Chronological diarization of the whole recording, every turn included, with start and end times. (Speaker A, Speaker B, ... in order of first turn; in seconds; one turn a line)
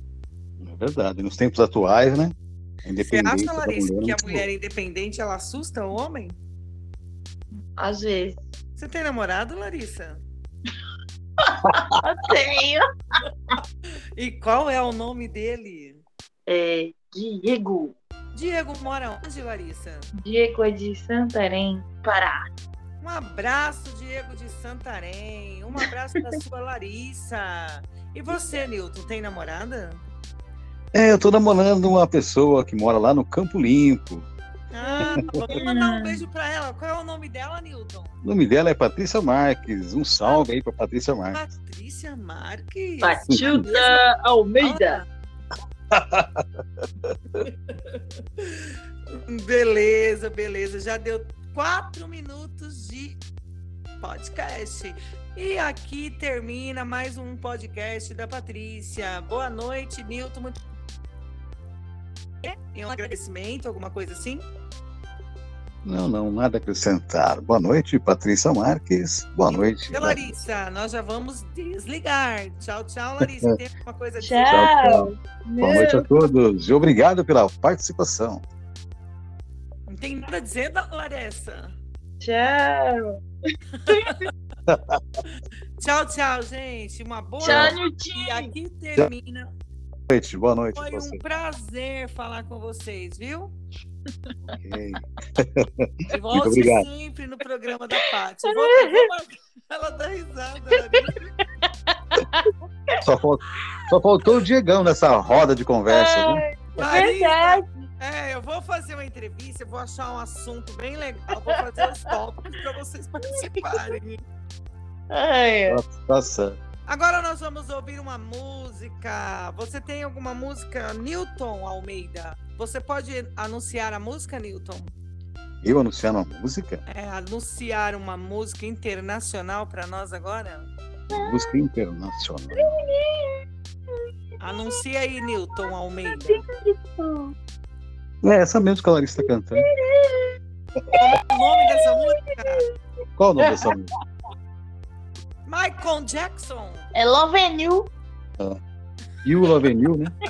Speaker A: 0.6-2.3
Speaker A: 2.8-4.5
Speaker B: 3.0-6.4
Speaker C: 7.8-8.4
Speaker B: 8.8-10.2
Speaker C: 12.0-12.8
Speaker B: 14.2-16.0
Speaker C: 16.5-17.9
Speaker B: 18.3-20.1
Speaker C: 20.2-22.4
Speaker B: 23.0-30.0
Speaker A: 30.9-34.3
Speaker B: 34.7-38.2
Speaker C: 34.8-36.2
Speaker A: 38.2-41.4
Speaker B: 40.2-40.5
Speaker B: 41.3-44.0
Speaker C: 43.0-45.0
Speaker A: 43.3-43.6
Speaker B: 44.6-45.0
Speaker A: 45.9-46.4
Speaker B: 47.4-53.2
Speaker B: 54.0-60.6
Speaker B: 62.4-64.4
Speaker A: 65.8-70.3
Speaker B: 69.5-74.6
Speaker A: 73.2-73.5
Speaker C: 74.2-76.2
Speaker A: 74.4-75.1
Speaker A: 75.6-78.4
Speaker B: 79.9-81.7
Speaker C: 82.2-83.2
Speaker B: 83.9-84.1
Speaker C: 83.9-84.2
Speaker A: 84.7-85.0
Speaker B: 85.8-89.5
Speaker C: 87.4-88.5
Speaker A: 87.4-87.7
Speaker A: 90.1-91.2
Speaker B: 90.7-93.5
Speaker A: 94.5-96.9
Speaker B: 96.1-101.2
Speaker C: 98.5-99.0
Speaker C: 102.2-102.5
Speaker A: 103.0-107.1
Speaker C: 105.9-107.8
Speaker B: 106.8-114.2
Speaker C: 115.1-115.8
Speaker A: 115.7-116.6
Speaker B: 116.9-124.9
Speaker A: 125.6-126.8
Speaker B: 126.9-130.7
Speaker A: 131.1-132.8
Speaker C: 131.1-131.5
Speaker C: 132.5-133.4
Speaker B: 134.4-136.4
Speaker C: 136.1-137.3
Speaker A: 138.2-139.7
Speaker C: 139.6-140.3
Speaker B: 140.9-142.7
Speaker A: 143.2-143.9
Speaker C: 143.4-143.7
Speaker B: 145.4-146.9
Speaker C: 146.9-147.9
Speaker A: 149.2-150.1